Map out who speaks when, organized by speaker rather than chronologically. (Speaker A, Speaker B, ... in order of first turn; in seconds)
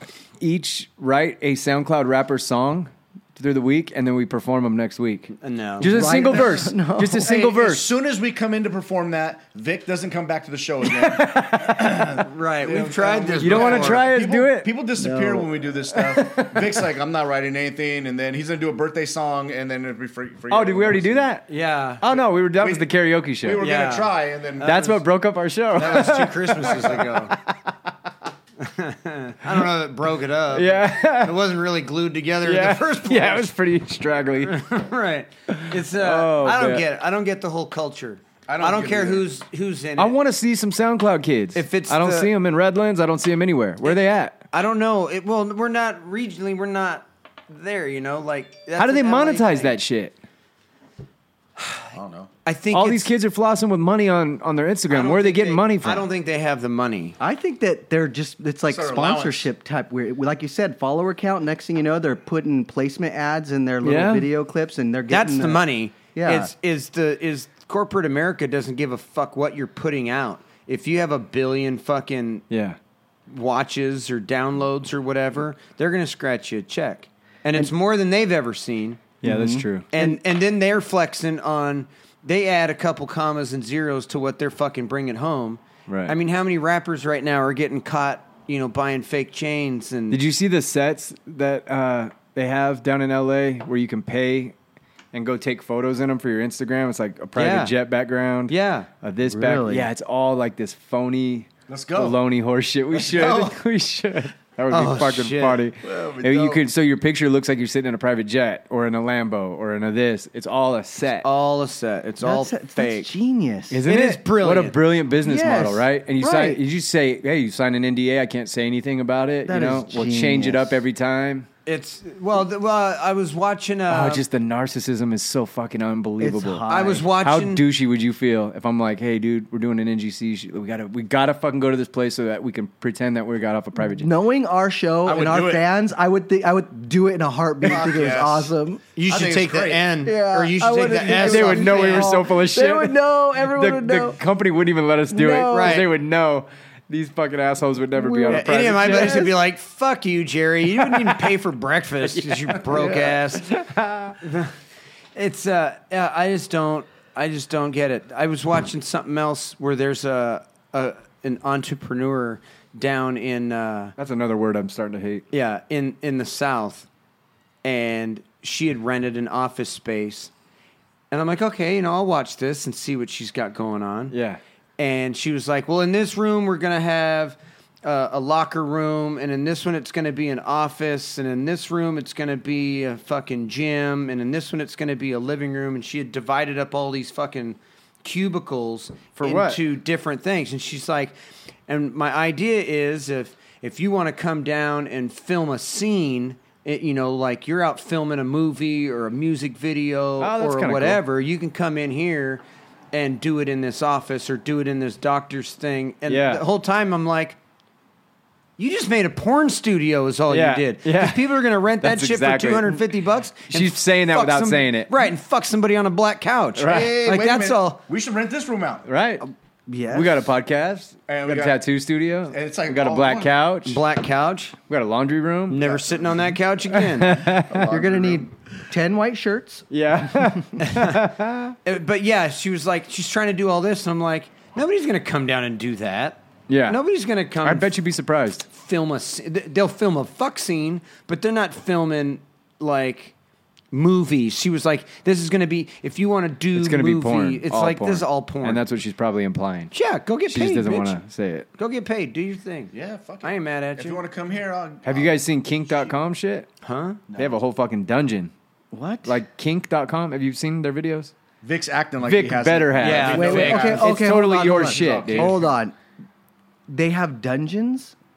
Speaker A: 0.4-7.9, 10.8-12.1, 13.4-14.7, 15.9-16.8, 20.5-21.4, 22.0-23.6, 24.6-27.5, 30.5-31.4, 32.4-34.6, 35.5-36.8, 40.0-44.4, 48.8-50.1, 52.7-56.0, 63.8-64.3, 72.5-72.8, 79.2-79.9, 85.9-86.1, 90.1-94.5, 95.1-111.3, 113.7-121.5, 123.9-134.1, 141.0-149.3, 150.7-151.2, 152.1-154.2, 164.0-165.2, 174.1-174.4, 189.2-189.6, 200.2-201.0, 206.1-206.4, 210.3-212.9, 213.5-215.1, 216.6-217.0, 218.8-219.2, 219.9-223.8, 224.7-225.7, 226.7-227.7, 229.7-231.6, 236.5-236.8, 237.4-238.5, 246.5-249.7, 250.3-251.5, 254.8-256.5, 257.1-258.3, 259.0-261.1, 262.0-265.4
Speaker B: 5.4-6.1, 12.2-14.1, 21.5-22.0, 23.6-24.1, 25.8-27.4, 28.6-33.5, 34.4-40.1, 41.5-42.3, 43.8-49.7, 52.4-53.1, 54.9-57.1, 65.1-72.4, 73.3-79.0, 79.9-90.2, 97.3-97.7, 98.5-98.9, 104.7-105.7, 111.2-113.1, 113.8-114.8, 121.7-124.2, 126.7-127.6, 138.9-142.1, 145.5-145.9, 148.3-153.5, 154.2-154.5, 155.1-163.9, 165.3-166.9, 167.6-170.3, 171.1-174.1, 174.8-191.1, 191.7-207.4, 208.6-217.8, 223.6-224.6, 225.5-227.2, 230.6-231.0, 231.6-237.7, 238.5-243.1, 243.7-248.6, 249.7-251.0, 251.6-254.0, 256.6-257.0, 262.8-263.8
Speaker C: 5.8-7.3, 15.0-15.5, 57.2-66.5, 79.2-80.2, 99.2-99.9, 112.2-113.8, 115.2-116.6, 119.5-120.8, 126.2-127.1, 133.8-138.8, 140.0-144.2, 145.1-145.8, 147.9-149.3, 219.7-220.3, 227.5-230.4, 258.7-259.2, 263.1-265.8, 266.7-267.9
Speaker D: 7.2-21.3, 22.6-22.9, 23.4-25.0, 25.8-27.1, 38.5-39.3, 51.9-52.3, 58.7-59.5, 101.7-102.2, 102.9-103.6, 105.8-106.6, 135.1-135.7, 137.6-138.5, 139.0-139.9, 216.7-218.9, 221.1-221.6, 222.3-223.3, 225.6-226.4, 227.2-228.2, 252.7-255.1, 257.1-257.4, 261.4-265.5